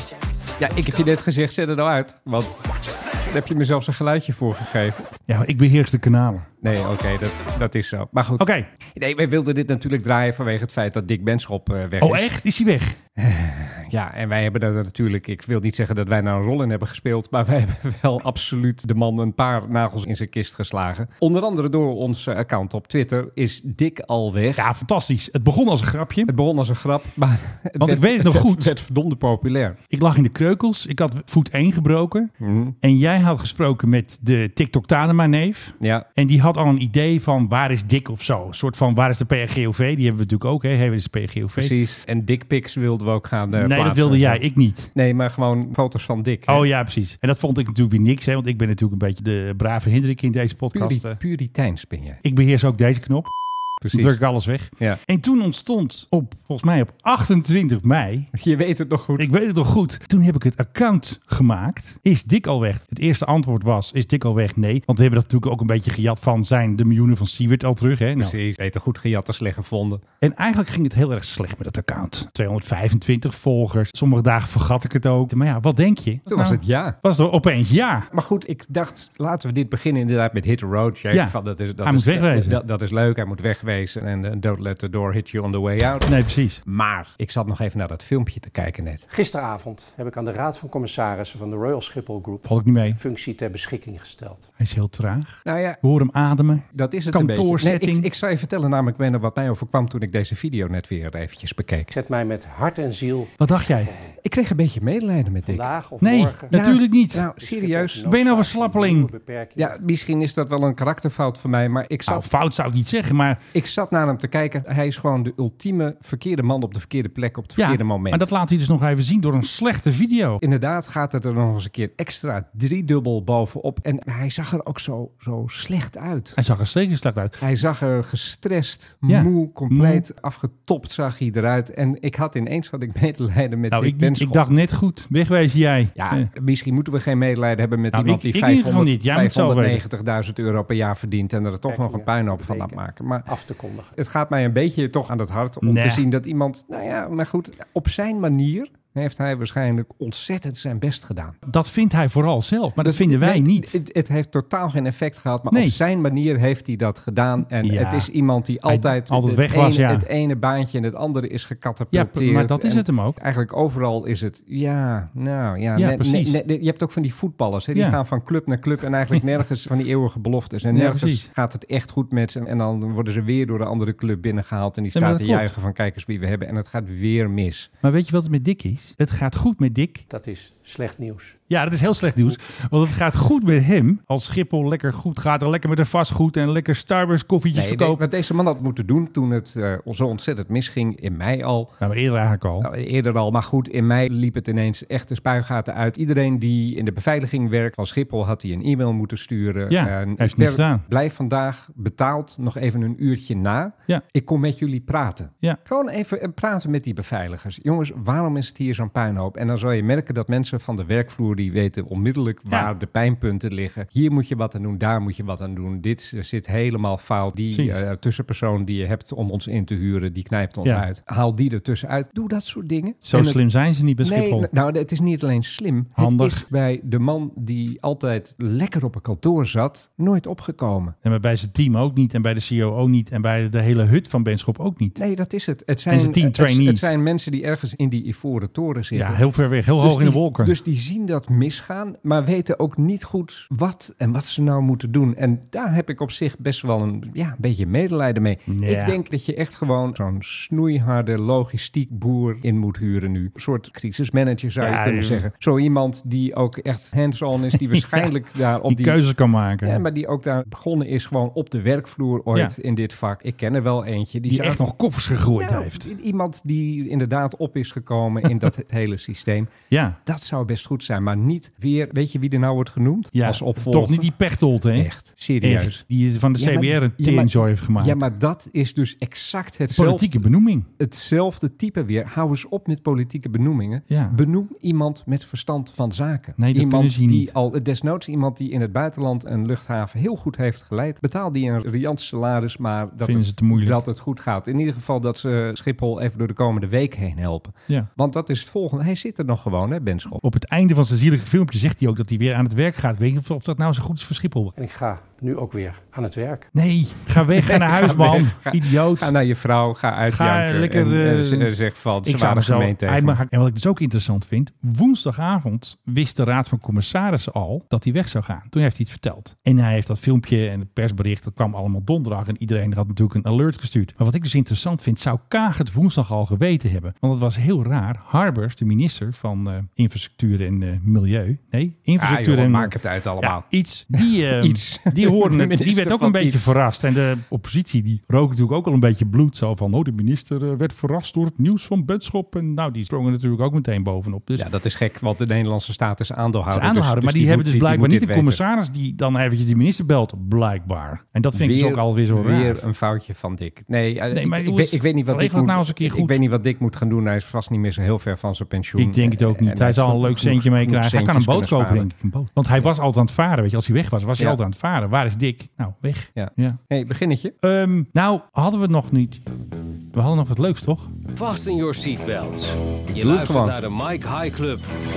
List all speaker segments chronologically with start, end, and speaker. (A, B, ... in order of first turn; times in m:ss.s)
0:00.6-0:02.6 A
0:03.3-0:05.1 A
0:05.3-0:06.5 B
0:06.6-0:12.3 A
0:08.4-0:08.7 B
0:12.0-0:13.0 B
0:13.2-0:24.7 A
0:24.6-0:26.3 B
0:26.3-0:29.8 A
0:27.8-0:28.7 B
0:29.9-0:32.3 B
0:32.4-0:32.8 A
0:32.8-0:41.7 B
0:35.8-0:36.1 A
0:41.6-0:44.4 A
0:43.5-0:44.9 B
0:45.0-0:46.6 A
0:46.5-0:51.2 B
0:50.7-0:52.2 A
0:52.2-0:53.3 B
0:53.8-0:54.2 A
0:53.9-0:58.3 B
0:58.4-0:59.3 A
0:59.2-1:08.4 B
1:08.2-1:10.0 A
1:10.2-1:18.1 B
1:16.3-1:17.0 A
1:18.1-1:26.1 A
1:21.1-1:22.6 B
1:26.1-1:26.6 B
1:26.6-1:29.0 A
1:29.1-1:34.5 C
1:32.5-1:33.0 B
1:34.6-1:38.1 B
1:35.4-1:35.8 A
1:36.7-1:41.9 A
1:41.9-1:44.1 C
1:43.4-1:43.9 B
1:44.2-1:45.7 A
1:45.5-1:46.6 C
1:46.0-1:47.3 B
1:46.5-1:48.0 A
1:47.4-1:49.8 C
1:48.0-1:49.1 B
1:49.6-1:52.2 A
1:52.1-1:53.4 B
1:53.5-1:58.3 A
1:57.6-2:00.4 B
2:00.4-2:06.4 A
2:06.4-2:07.4 B
2:07.4-2:14.4 A
2:09.1-2:10.0 B
2:13.7-2:16.3 B
2:16.0-2:23.3 A
2:17.9-2:19.8 B
2:21.7-2:23.9 C
2:24.0-2:31.4 A
2:25.6-2:26.0 B
2:31.5-2:33.8 B
2:32.8-2:57.7 A
2:35.5-2:35.8 B
2:37.5-2:38.1 B
2:38.7-2:40.1 B
2:41.9-2:43.2 B
2:45.8-2:46.3 B
2:50.7-2:51.3 B
2:55.0-2:55.5 B
2:57.8-3:00.0 B
3:00.1-3:01.4 C
3:01.5-3:08.0 B
3:07.5-3:11.7 A
3:11.8-3:12.7 B
3:12.6-3:43.4 A
3:19.7-3:20.8 B
3:43.0-3:44.5 B
3:44.0-3:51.0 A
3:46.0-3:46.4 B
3:51.0-3:55.0 B
3:55.0-3:59.2 A
3:55.9-3:56.9 B
3:58.9-4:00.5 B
3:59.8-4:19.0 A
4:08.5-4:09.0 B
4:14.6-4:15.2 B
4:17.7-4:18.1 B
4:18.7-4:19.8 B
4:19.6-4:24.6 A
4:24.3-4:25.9 B
4:25.4-4:29.5 A
4:29.7-4:30.0 B
4:30.1-4:34.1 A
4:33.2-4:34.9 B
4:34.8-4:35.8 A
4:35.4-4:38.0 B
4:36.4-4:40.2 A
4:39.7-4:40.7 B
4:40.8-5:00.2 A
4:43.9-4:44.2 B
4:46.4-4:47.3 B
4:53.0-4:53.8 B
5:00.2-5:04.5 B
5:04.6-5:06.5 C
5:06.5-5:09.1 B
5:07.4-5:13.2 A
5:10.1-5:11.5 B
5:12.0-5:44.5 B
5:32.0-5:36.5 A
5:44.4-5:48.4 A
5:46.5-5:52.6 B
5:51.3-6:01.9 A
5:54.1-5:56.2 B
5:58.8-6:06.6 B
6:06.2-6:07.4 A
6:07.4-6:09.3 B
6:09.9-6:10.9 B
6:11.1-6:14.7 D
6:12.9-6:13.6 A